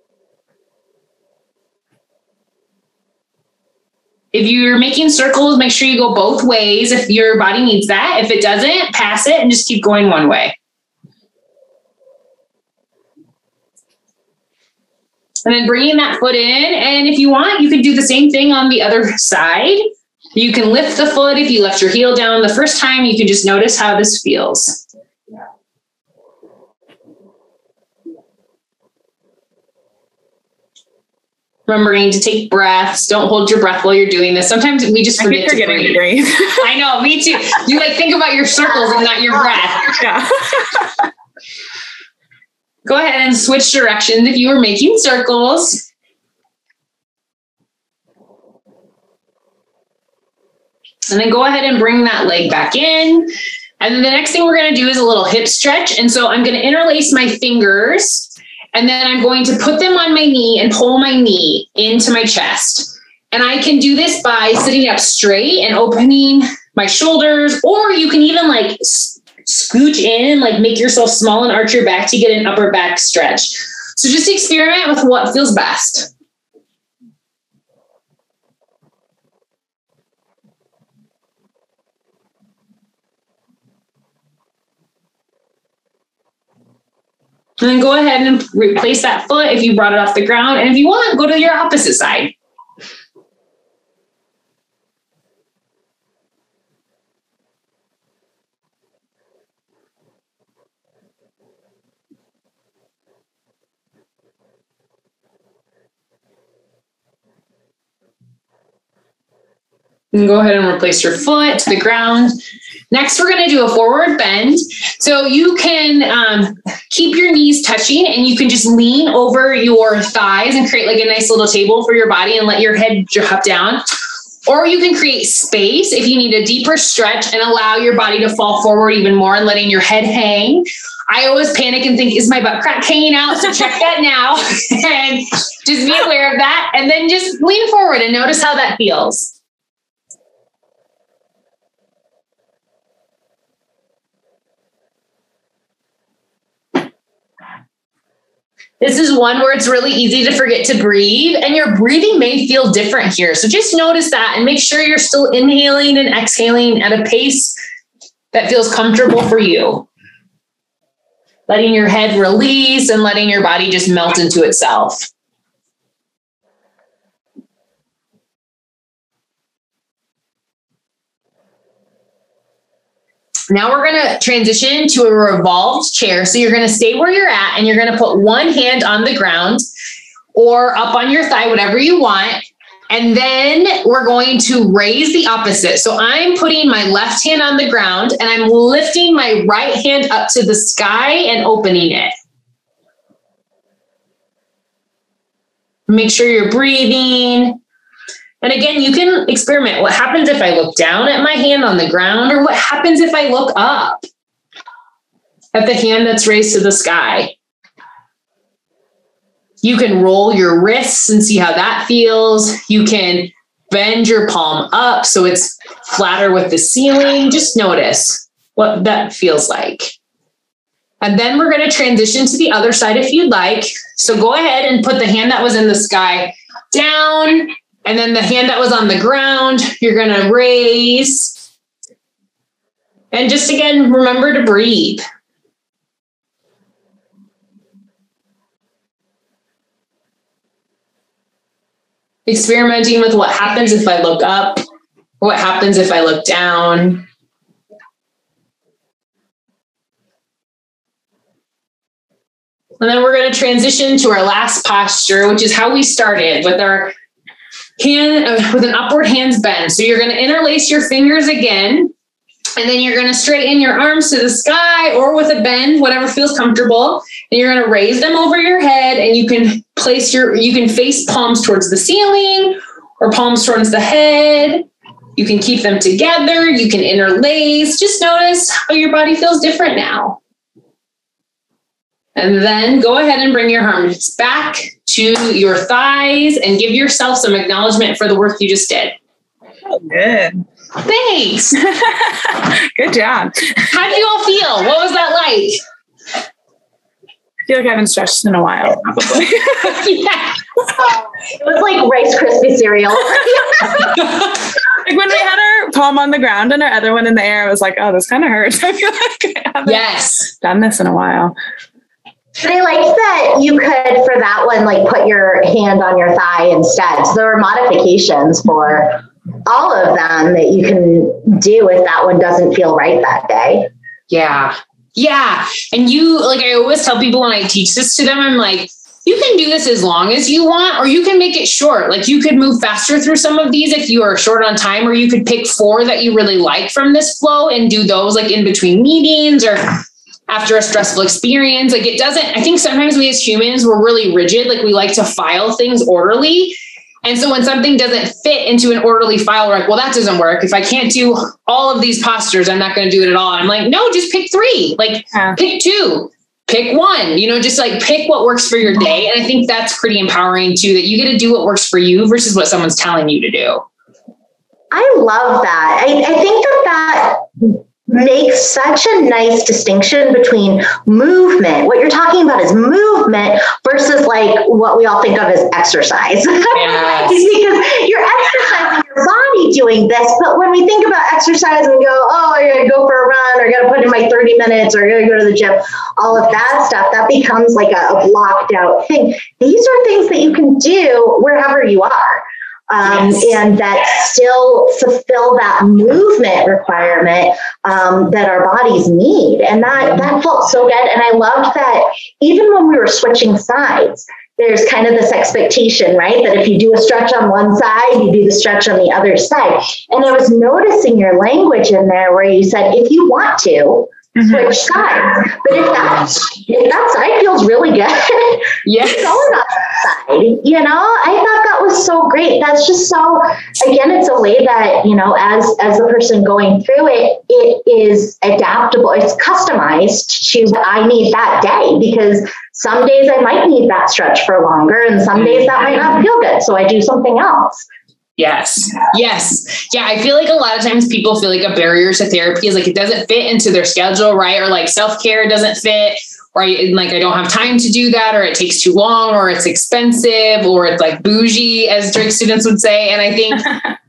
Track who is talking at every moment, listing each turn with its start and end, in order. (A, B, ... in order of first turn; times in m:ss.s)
0:04.3-0:10.5 A
0:15.4-0:19.8 A
0:20.3-0:24.8 A
0:31.7-0:36.0 A
0:35.2-0:36.6 B
0:36.6-0:40.0 A
0:40.0-0:41.0 B
0:42.8-0:45.8 A
0:51.1-0:53.3 A
0:53.8-1:16.1 A
1:27.6-1:32.3 A
1:50.1-1:52.3 A
1:52.9-2:03.8 A
2:04.4-2:19.3 A
2:28.8-2:37.5 A
2:38.3-2:39.9 A
2:41.5-2:45.1 A
2:53.5-2:59.6 A
3:00.3-3:12.1 A
3:15.9-3:17.6 A
3:18.4-3:24.0 A
3:25.5-3:27.3 A
3:29.6-3:39.9 A
3:41.0-3:51.4 A
3:53.1-3:55.0 A
4:02.3-4:04.6 A
4:05.2-4:07.0 A
4:12.8-4:16.9 A
4:17.8-4:21.9 A
4:22.6-4:34.6 A
4:35.2-4:40.2 A
4:42.2-4:48.9 A
4:49.6-4:50.4 B
4:50.8-4:51.6 A
4:51.7-4:53.7 B
4:53.7-4:55.6 A
4:57.5-4:59.8 B
4:59.6-5:00.3 A
5:00.8-5:03.9 C
5:04.8-5:11.3 B
5:09.6-5:10.3 A
5:12.4-5:23.7 C
5:24.1-5:39.8 A
5:40.3-6:03.6 A
6:04.7-7:17.6 C
6:16.5-6:17.2 A
6:32.8-6:33.3 A
6:58.6-6:59.2 A
7:18.2-7:33.5 A